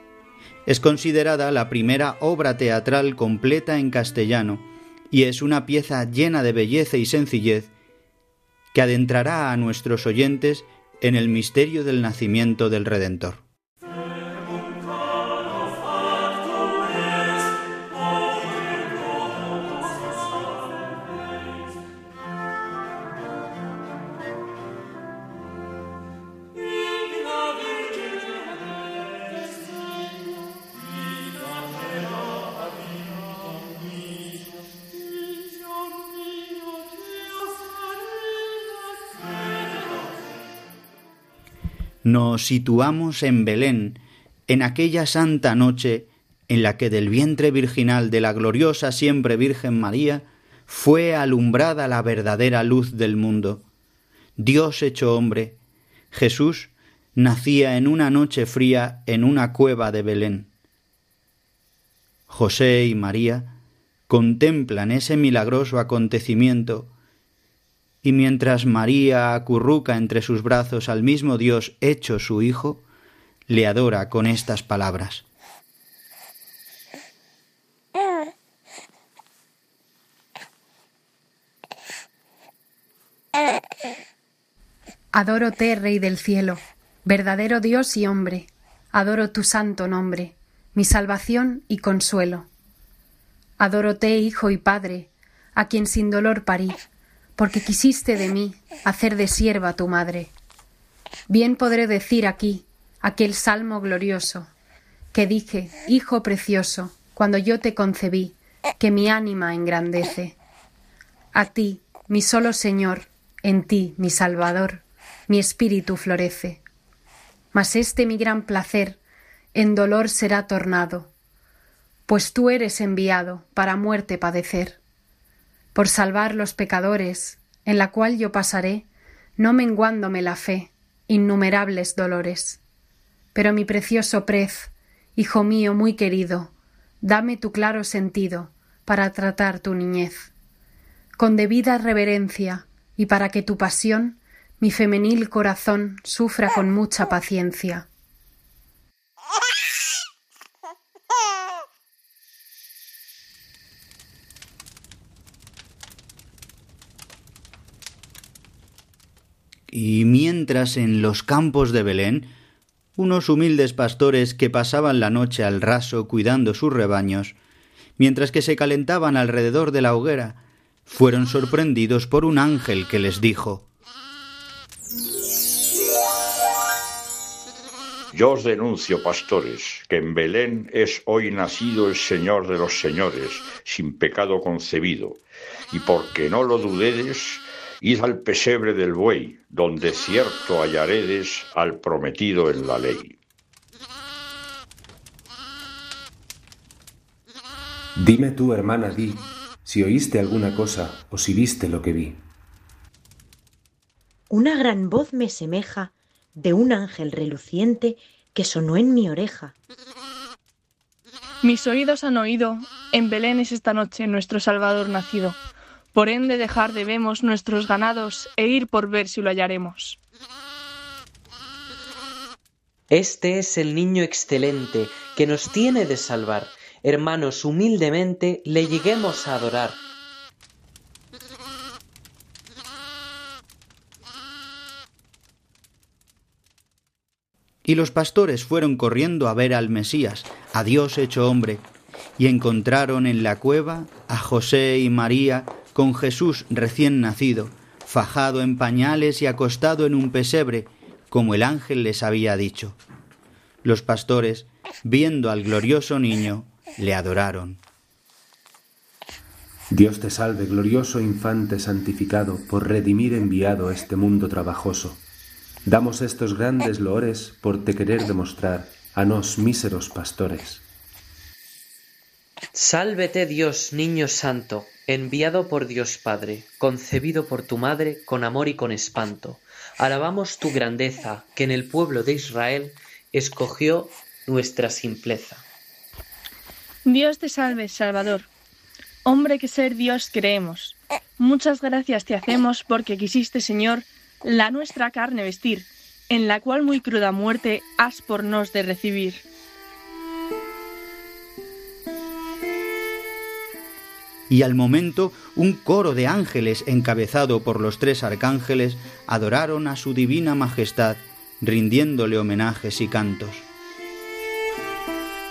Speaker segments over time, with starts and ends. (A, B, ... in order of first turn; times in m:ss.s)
0:00.6-0:07.7 A
0:08.7-0:13.4 A
0:42.0-0:53.6 A
0:54.4-0:55.6 A
0:56.1-1:00.5 A
1:02.3-1:03.6 A
1:04.1-1:06.9 A
1:08.0-1:12.8 A
1:13.5-1:15.2 A
1:25.1-1:32.5 B
1:33.6-1:36.8 B
1:37.4-1:40.3 B
1:41.3-1:44.5 B
1:45.1-1:50.4 B
1:51.3-1:56.6 B
1:57.5-1:59.0 B
1:59.5-2:01.1 B
2:02.1-2:04.8 B
2:05.7-2:12.6 B
2:13.3-2:20.3 B
2:21.2-2:27.9 B
2:39.7-2:42.3 A
2:43.0-2:47.4 A
2:48.0-2:53.6 A
2:58.1-3:13.2 C
3:18.0-3:22.2 D
3:24.3-3:29.5 E
3:31.4-3:35.4 F
3:35.9-3:40.0 F
3:42.9-3:49.8 G
3:57.6-4:01.6 A
4:02.2-4:12.8 A
4:13.6-4:17.6 A
4:19.7-4:25.0 D
4:25.6-4:30.6 D
4:32.5-4:45.4 G
4:46.8-4:48.3 F
4:49.0-4:59.2 F
5:04.3-5:13.5 A